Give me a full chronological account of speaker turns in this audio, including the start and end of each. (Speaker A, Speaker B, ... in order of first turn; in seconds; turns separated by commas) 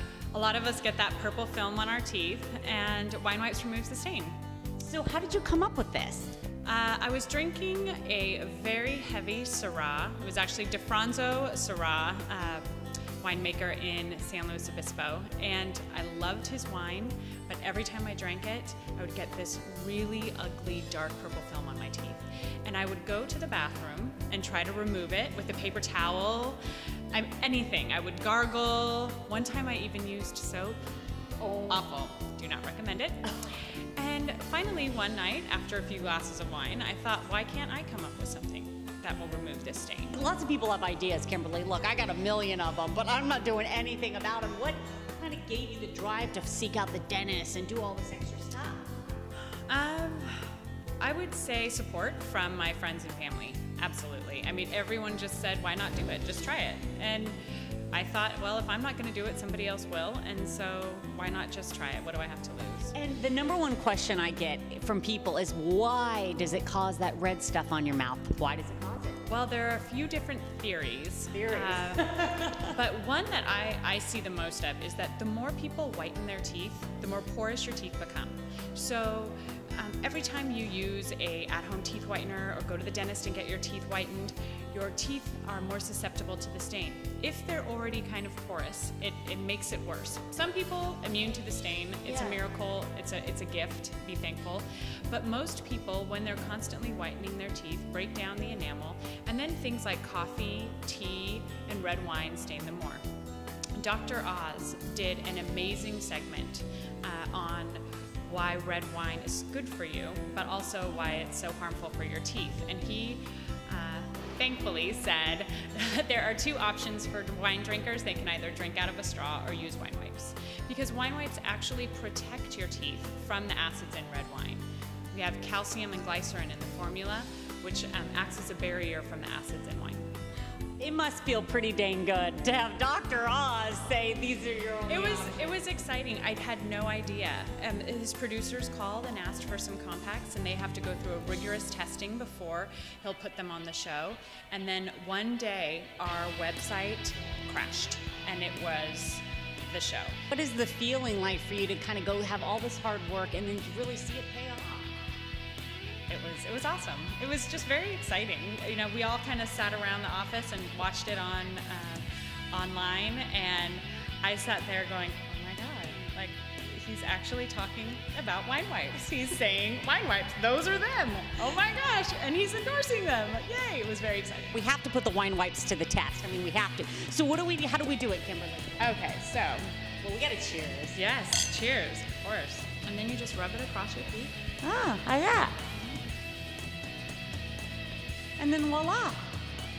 Speaker A: 0.3-4.4, Speaker B: 4.8-6.3, Speaker A: 6.6-12.7, Speaker A: 13.2-26.6, Speaker A: 27.1-30.8, Speaker B: 31.4-31.9, Speaker A: 31.7-33.3, Speaker A: 34.0-40.2, Speaker B: 40.1-48.9, Speaker A: 49.7-57.4, Speaker A: 57.9-62.9, Speaker B: 62.9-69.2, Speaker A: 69.3-72.0, Speaker B: 71.3-72.7, Speaker A: 72.7-103.0, Speaker B: 92.0-92.4, Speaker A: 103.8-130.1, Speaker B: 130.8-135.5, Speaker A: 134.9-150.2, Speaker B: 150.3-154.9, Speaker A: 156.1-174.6, Speaker B: 174.5-179.0, Speaker A: 178.8-179.7, Speaker B: 180.0-181.0, Speaker A: 180.9-184.3, Speaker B: 184.6-185.6, Speaker B: 188.4-189.3